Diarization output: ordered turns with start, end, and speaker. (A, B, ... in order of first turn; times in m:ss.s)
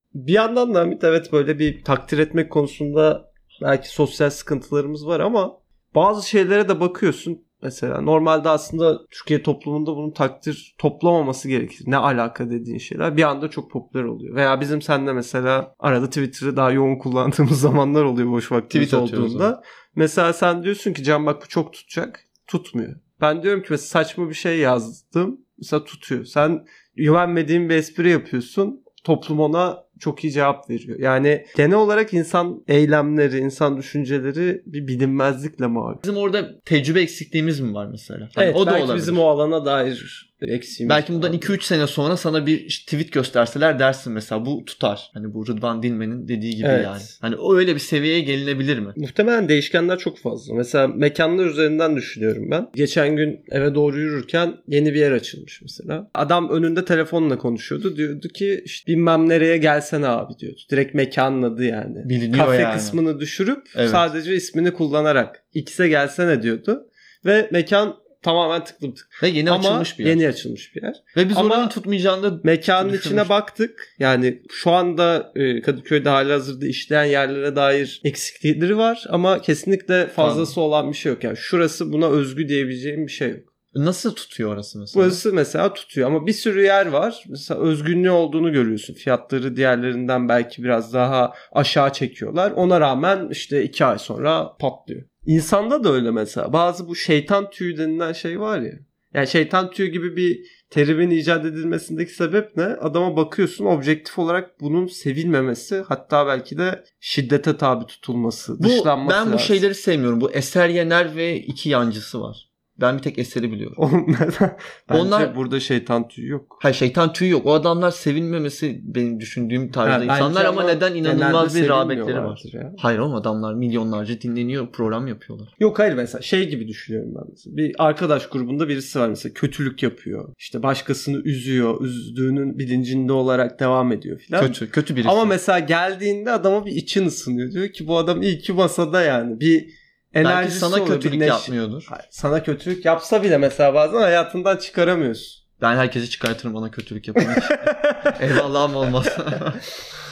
0:00.1-0:36.0 A
0:18.7-0:19.5 B
0:36.0-0:39.2 B
0:38.4-0:41.6 A
0:40.8-0:49.0 B
0:46.6-0:47.2 A
0:49.0-1:11.7 A
1:02.0-1:03.0 B
1:03.8-1:04.1 B
1:09.2-1:10.2 B
1:11.2-1:13.3 B
1:12.4-1:23.5 A
1:20.2-1:20.5 B
1:23.7-1:25.2 B
1:24.9-1:49.6 A
1:48.6-1:53.8 B
1:53.8-1:56.6 A
1:54.9-1:55.3 B
1:56.6-2:05.5 B
1:59.8-2:02.8 A
2:05.6-2:25.4 A
2:14.4-2:15.3 B
2:20.2-2:21.9 B
2:25.6-2:29.6 B
2:27.2-2:28.4 A